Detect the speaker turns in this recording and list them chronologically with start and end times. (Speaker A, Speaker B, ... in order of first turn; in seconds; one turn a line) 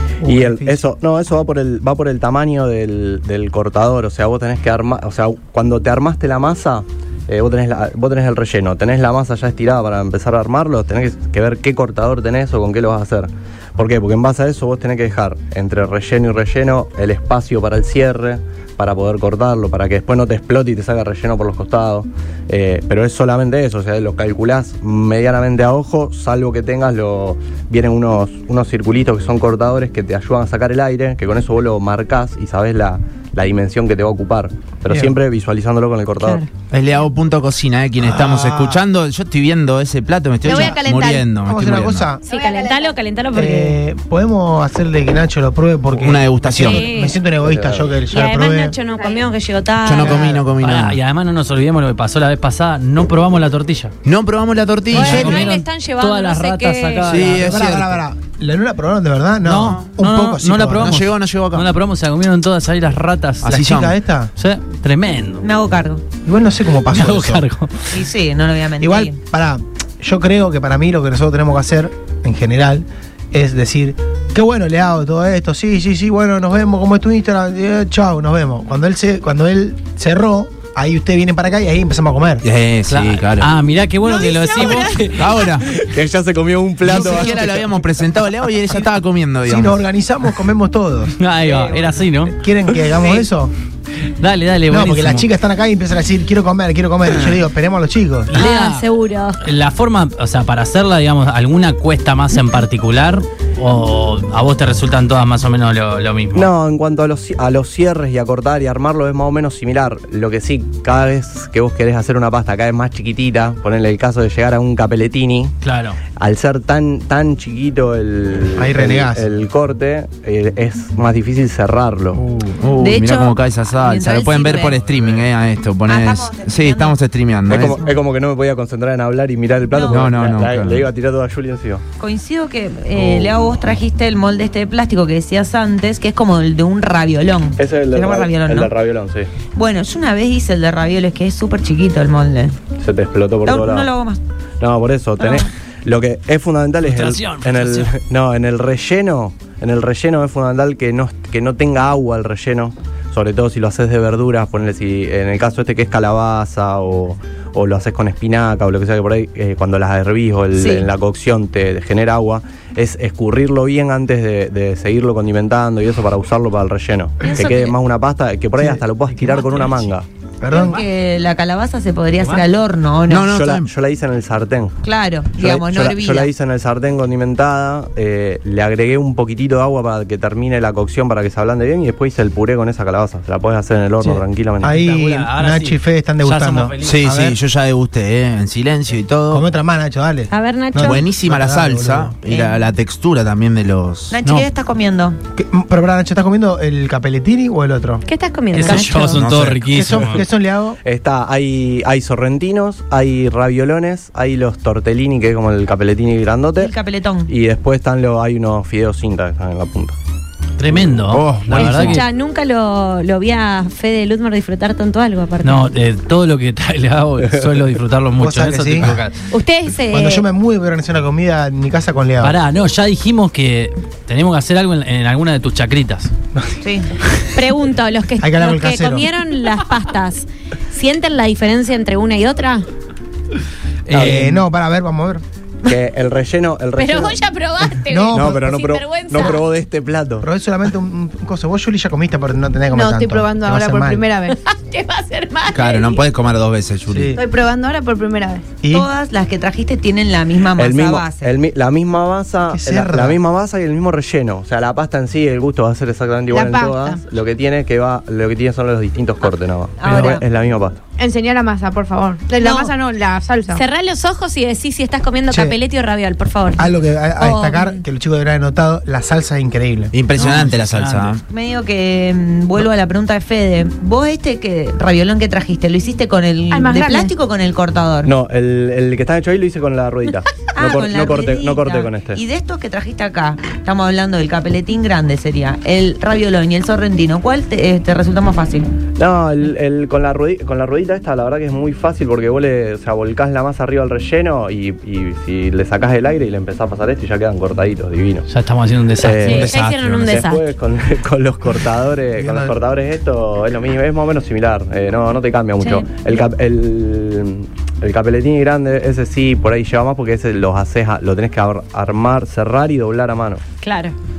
Speaker A: 0.2-0.8
Speaker B: 0.2-36.4
Speaker A: 34.9-35.1
Speaker C: 36.2-36.5
Speaker D: 36.7-42.1
Speaker A: 38.0-38.8
Speaker E: 40.5-41.2
Speaker A: 41.4-42.2
Speaker C: 42.2-43.8
Speaker E: 42.3-43.0
Speaker A: 43.3-48.8
Speaker D: 45.9-46.9
Speaker C: 46.6-47.2
Speaker B: 47.4-48.0
Speaker C: 48.1-50.4
Speaker D: 49.8-51.0
Speaker A: 50.0-50.4
Speaker F: 50.0-53.9
Speaker D: 54.0-55.5
Speaker C: 54.9-57.2
Speaker F: 54.9-57.6
Speaker D: 57.1-58.0
Speaker A: 57.4-61.0
Speaker F: 59.4-63.6
Speaker D: 60.7-61.7
Speaker D: 63.4-64.0
Speaker A: 63.5-64.3
Speaker F: 64.4-65.5
Speaker G: 65.4-66.0
Speaker A: 66.2-67.5
Speaker F: 66.9-67.9
Speaker G: 67.9-69.2
Speaker A: 68.8-82.4
Speaker D: 82.4-83.5
Speaker F: 82.9-85.4
Speaker E: 84.5-84.8
Speaker D: 84.6-85.7
Speaker B: 85.7-87.8
Speaker D: 86.8-89.8
Speaker A: 89.5-91.1
Speaker F: 91.2-92.4
Speaker G: 91.5-91.9
Speaker A: 92.3-93.5
Speaker F: 93.0-93.2
Speaker F: 94.2-95.3
Speaker A: 94.7-98.4
Speaker F: 98.3-98.9
Speaker C: 98.4-99.4
Speaker F: 99.4-106.5
Speaker B: 106.3-115.5
Speaker F: 115.6-116.0
Speaker B: 116.1-122.2
Speaker A: 118.5-119.3
Speaker D: 122.5-127.8
Speaker G: 122.8-124.8
Speaker G: 125.9-127.0
Speaker B: 127.5-131.8
Speaker G: 127.6-128.0
Speaker G: 129.7-130.1
Speaker D: 129.9-130.8
Speaker G: 132.0-138.7
Speaker B: 132.9-133.4
Speaker B: 137.6-139.3
Speaker G: 139.6-142.6
Speaker B: 142.8-143.9
Speaker G: 143.4-144.2
Speaker B: 144.6-170.1
Speaker G: 145.2-145.5
Speaker F: 146.9-147.9
Speaker G: 160.6-160.9
Speaker G: 167.2-167.8
Speaker A: 168.6-169.8
Speaker A: 170.4-170.8
Speaker G: 170.5-173.3
Speaker D: 173.1-173.7
Speaker B: 173.3-174.8
Speaker G: 174.8-176.3
Speaker B: 175.4-184.8
Speaker A: 184.0-187.4
Speaker F: 184.7-187.1
Speaker D: 186.8-189.5
Speaker A: 189.3-192.2
Speaker C: 190.3-191.0
Speaker D: 190.8-194.2
Speaker G: 192.3-192.6
Speaker G: 194.1-195.2
Speaker A: 195.4-198.0
Speaker C: 198.1-199.2
Speaker F: 198.5-200.2
Speaker D: 199.2-199.6
Speaker A: 199.7-200.8
Speaker B: 200.8-206.7
Speaker G: 206.6-207.3
Speaker B: 207.3-209.9
Speaker F: 210.6-212.1
Speaker D: 211.1-212.0
Speaker C: 211.6-215.7
Speaker F: 215.4-219.3
Speaker A: 218.2-219.0
Speaker C: 219.3-220.3
Speaker A: 219.9-222.4
Speaker F: 222.2-226.1
Speaker G: 226.6-226.9
Speaker C: 227.3-232.7
Speaker A: 228.2-229.1
Speaker F: 233.9-234.3
Speaker B: 233.9-234.3
Speaker A: 233.9-235.2
Speaker B: 235.7-237.2
Speaker C: 236.8-239.4
Speaker A: 237.9-238.5
Speaker B: 238.1-240.3
Speaker A: 240.2-244.0
Speaker E: 242.7-244.4
Speaker C: 244.5-246.0
Speaker D: 245.5-247.1
Speaker A: 246.9-247.2
Speaker E: 247.2-248.5
Speaker A: 248.6-248.9
Speaker G: 248.7-251.3
Speaker B: 250.6-260.8
Speaker A: 252.5-253.2
Speaker E: 256.3-257.0
Speaker G: 259.8-260.2
Speaker E: 261.0-263.6
Speaker G: 262.4-262.7
Speaker C: 263.5-267.8
Speaker A: 265.3-265.6
Speaker A: 266.6-269.9
Speaker D: 269.9-271.2
Speaker F: 270.2-271.2
Speaker G: 271.3-278.1
Speaker E: 276.5-277.1
Speaker B: 278.0-282.2
Speaker G: 280.6-288.7
Speaker B: 289.0-298.3
Speaker F: 298.3-299.6
Speaker B: 299.0-313.4
Speaker C: 299.2-300.4
Speaker D: 299.4-300.0
Speaker A: 302.2-302.6
Speaker C: 313.6-313.9